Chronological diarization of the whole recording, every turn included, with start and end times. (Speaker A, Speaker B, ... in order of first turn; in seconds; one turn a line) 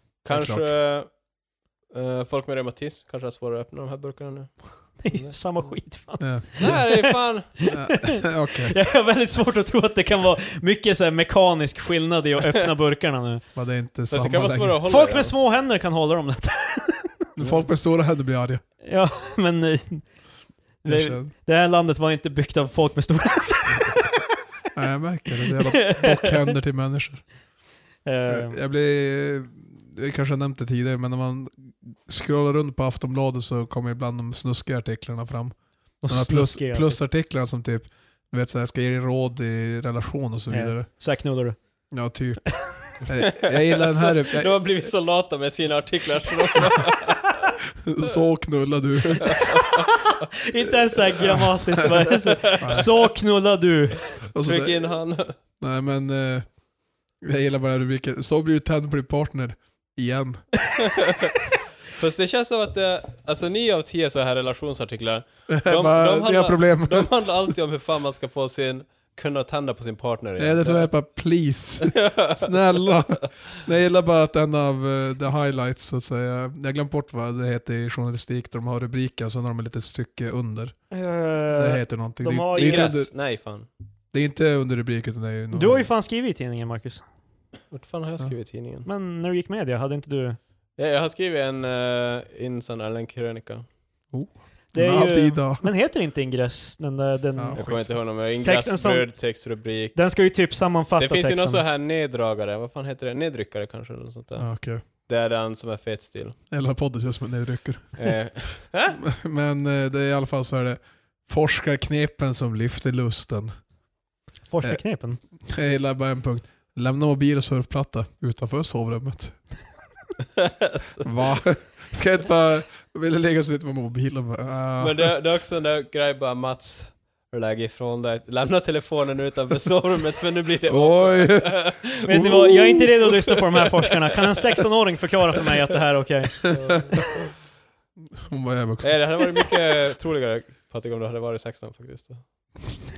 Speaker A: 0.2-1.2
Speaker B: 0.2-0.7
Speaker A: 1.9-5.8
Speaker C: 5.0-13.4
Speaker B: 6.2-6.9
Speaker A: 6.6-7.5
Speaker B: 7.6-8.8
Speaker B: 13.5-14.8
Speaker A: 14.1-15.3
Speaker C: 14.8-17.2
Speaker B: 17.4-18.6
Speaker A: 17.4-17.7
Speaker C: 18.8-20.2
Speaker C: 20.8-24.1
Speaker B: 20.9-21.3
Speaker B: 24.7-27.4
Speaker C: 25.7-26.3
Speaker C: 28.0-28.6
Speaker B: 28.3-41.2
Speaker C: 36.0-37.0
Speaker C: 40.5-41.9
Speaker B: 41.9-44.9
Speaker A: 43.2-47.5
Speaker B: 47.8-49.6
Speaker A: 49.3-49.9
Speaker C: 50.4-54.0
Speaker A: 52.2-53.0
Speaker B: 52.6-52.9
Speaker B: 54.3-55.0
Speaker A: 54.4-55.3
Speaker B: 55.6-56.6
Speaker B: 57.2-60.6
Speaker A: 60.8-61.3
Speaker A: 61.9-70.9
Speaker B: 65.5-67.1
Speaker B: 70.4-80.9
Speaker A: 71.8-72.9
Speaker C: 80.9-83.0
Speaker B: 81.5-83.1
Speaker A: 82.5-83.7
Speaker B: 84.1-85.9
Speaker C: 85.5-87.0
Speaker A: 87.7-88.9
Speaker C: 88.8-90.4
Speaker A: 90.8-93.7
Speaker B: 94.1-95.7
Speaker C: 94.7-99.3
Speaker B: 97.3-98.0
Speaker A: 97.5-100.1
Speaker C: 99.9-101.6
Speaker A: 101.0-106.4
Speaker B: 104.4-104.8
Speaker B: 106.5-108.2
Speaker A: 108.0-109.0
Speaker B: 108.9-113.5
Speaker C: 114.5-115.2
Speaker B: 115.4-119.3
Speaker A: 120.4-121.1
Speaker B: 121.0-125.1
Speaker A: 124.8-132.3
Speaker B: 130.7-132.9
Speaker C: 132.1-136.8
Speaker A: 136.5-137.3
Speaker B: 136.5-136.9
Speaker B: 138.2-139.1
Speaker A: 138.8-142.8